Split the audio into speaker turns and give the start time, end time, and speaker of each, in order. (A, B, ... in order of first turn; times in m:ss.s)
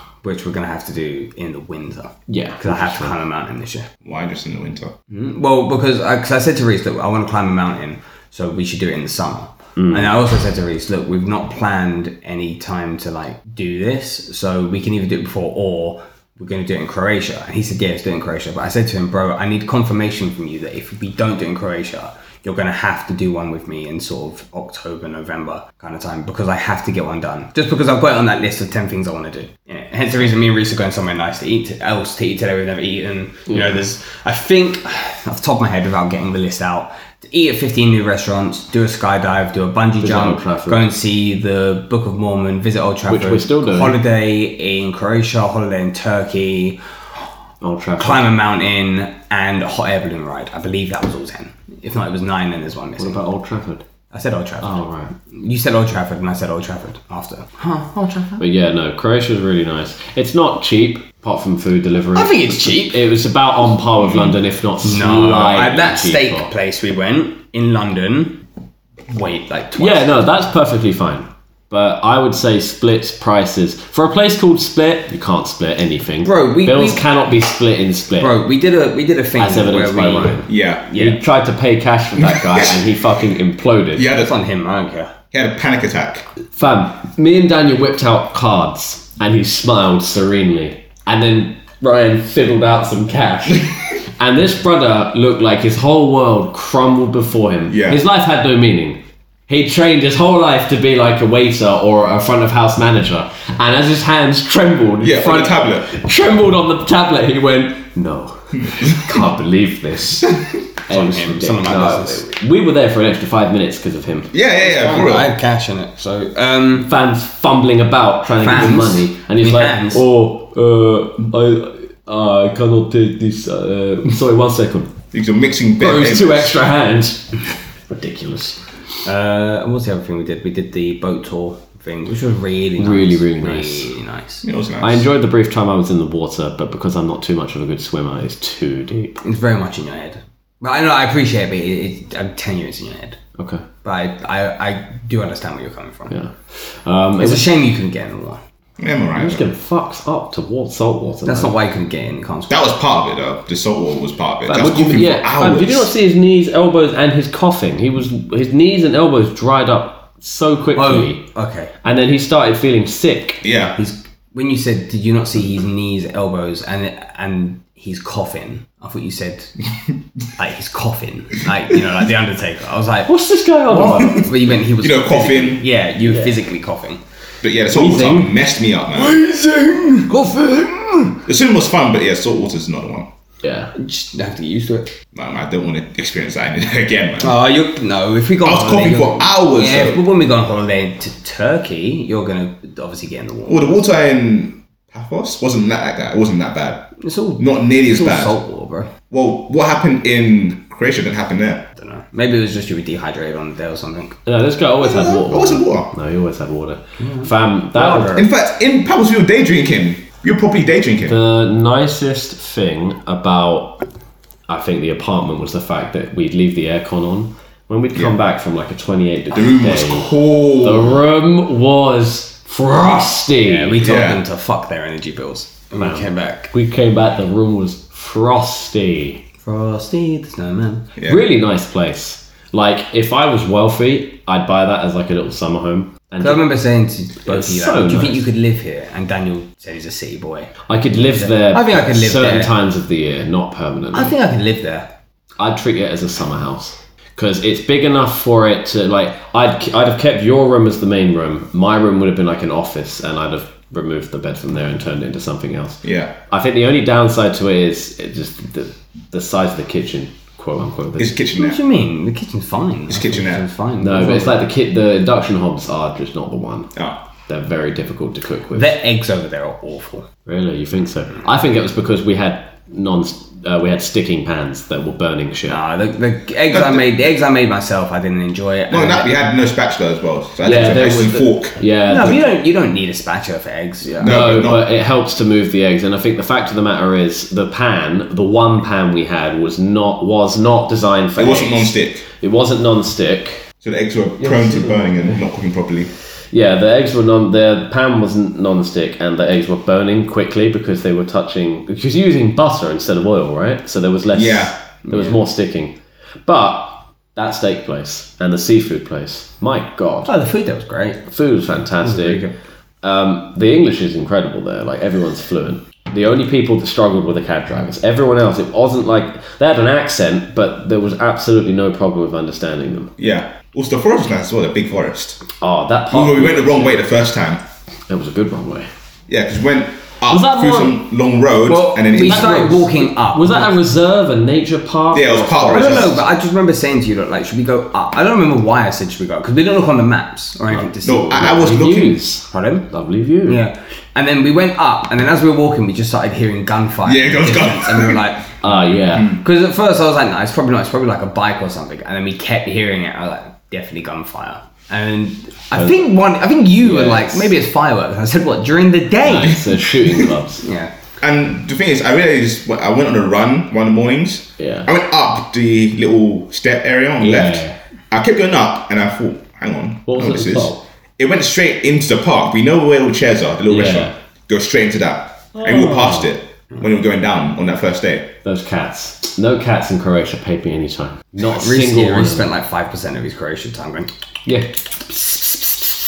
0:00.2-0:03.9 A
0:02.3-0:03.1 B
0:04.0-0:04.9 C
0:05.1-0:46.8 A
0:09.8-0:10.1 B
0:33.5-0:33.8 B
0:40.0-0:40.9 B
0:43.1-0:44.0 B
0:47.6-0:48.3 B
0:48.0-0:53.3 A
0:53.0-0:53.8 B
0:54.1-0:58.4 A
0:54.6-0:55.1 B
0:58.4-1:06.5 B
1:02.1-1:03.0 A
1:04.0-1:04.3 C
1:04.8-1:08.4 A
1:09.1-1:10.3 A
1:09.8-1:18.4 B
1:16.2-1:17.0 A
1:18.2-1:21.2 A
1:19.4-1:24.1 B
1:20.5-1:20.9 C
1:22.2-1:22.8 C
1:24.0-1:24.3 C
1:24.1-1:25.1 A
1:25.3-1:26.2 C
1:26.6-1:50.4 B
1:37.7-1:38.0 C
1:45.0-1:45.9 C
1:50.9-1:54.3 B
1:50.9-1:52.3 A
1:54.3-1:55.3 C
1:54.6-1:56.9 A
1:56.8-2:04.9 B
1:58.4-2:00.0 A
2:05.1-2:06.5 C
2:05.8-2:08.6 B
2:09.0-2:14.4 A
2:12.8-2:13.9 B
2:14.4-2:15.1 C
2:14.8-2:19.2 B
2:19.2-2:23.2 A
2:23.4-2:23.6 B
2:23.8-2:26.2 A
2:26.1-2:27.5 B
2:27.2-2:28.4 A
2:28.8-2:29.4 C
2:29.2-2:31.5 B
2:31.3-2:32.7 A
2:32.5-2:35.9 C
2:34.5-2:41.2 B
2:40.8-2:41.7 A
2:41.8-2:43.4 B
2:43.4-2:43.8 C
2:43.8-2:49.6 A
2:50.3-2:53.1 A
2:53.1-2:54.4 B
2:53.7-2:57.0 A
2:54.8-2:55.7 C
2:56.1-2:56.4 B
2:57.4-2:59.2 C
2:57.7-3:01.2 A
3:01.3-3:03.1 C
3:03.4-3:03.7 B
3:03.8-3:05.0 A
3:05.1-3:07.4 C
3:07.2-3:13.9 A
3:08.4-3:10.0 C
3:13.5-3:18.4 C
3:17.0-3:18.9 A
3:19.1-3:21.7 C
3:21.8-3:24.2 A
3:24.3-3:28.2 B
3:24.8-3:25.9 C
3:27.0-3:28.3 A
3:28.1-3:31.2 C
3:31.1-3:33.8 B
3:34.5-3:43.8 B
3:39.3-3:41.0 C
3:43.3-3:46.5 A
3:43.8-3:44.2 C
3:45.8-3:49.2 B
3:49.4-3:50.9 A
3:51.0-3:51.2 C
3:51.0-3:56.5 B
3:56.2-4:02.5 A
3:57.2-3:58.3 B
4:00.7-4:04.2 B
4:03.9-4:04.9 A
4:05.4-4:21.2 B
4:15.8-4:16.1 C
4:21.0-4:21.6 C
4:21.4-4:24.4 A
4:22.9-4:23.4 C
4:23.8-4:26.7 B
4:27.3-4:28.8 B
4:28.5-4:30.1 A
4:30.3-4:35.6 B
4:35.5-4:39.3 A
4:36.5-4:36.8 C
4:38.7-4:42.2 C
4:40.4-4:42.2 B
4:41.9-4:44.2 A
4:44.0-4:44.6 C
4:44.0-4:53.5 B
4:51.2-4:52.0 C
4:53.6-4:55.9 C
4:54.2-4:55.2 B
4:56.3-5:10.1 B
5:04.1-5:04.6 C
5:04.9-5:05.2 A
5:10.0-5:11.0 A
5:11.1-5:12.2 B
5:11.8-5:12.3 A
5:12.8-5:23.0 B
5:23.0-5:25.2 C
5:25.4-5:26.9 B
5:25.9-5:27.4 C
5:27.9-5:28.7 B
5:29.1-5:32.6 C
5:30.1-5:30.8 B
5:31.5-5:33.6 A
5:31.9-5:36.0 B
5:34.9-5:36.0 C
5:35.5-5:41.6 A
5:40.8-5:42.0 C
5:41.2-5:43.4 B
5:42.3-5:42.7 A
5:43.3-5:48.4 A
5:46.8-5:48.1 C
5:48.4-5:49.2 B
5:49.1-5:59.6 A
5:55.5-5:55.9 B
5:56.6-5:57.3 B
5:59.0-6:00.4 B
6:00.4-6:00.7 A
6:01.0-6:18.2 C
6:04.4-6:04.7 B
6:07.0-6:07.5 B
6:09.9-6:10.6 B
6:13.5-6:13.9 B
6:18.2-6:22.3 B
6:21.2-6:23.9 A
6:24.3-6:24.6 B
6:25.0-6:25.5 A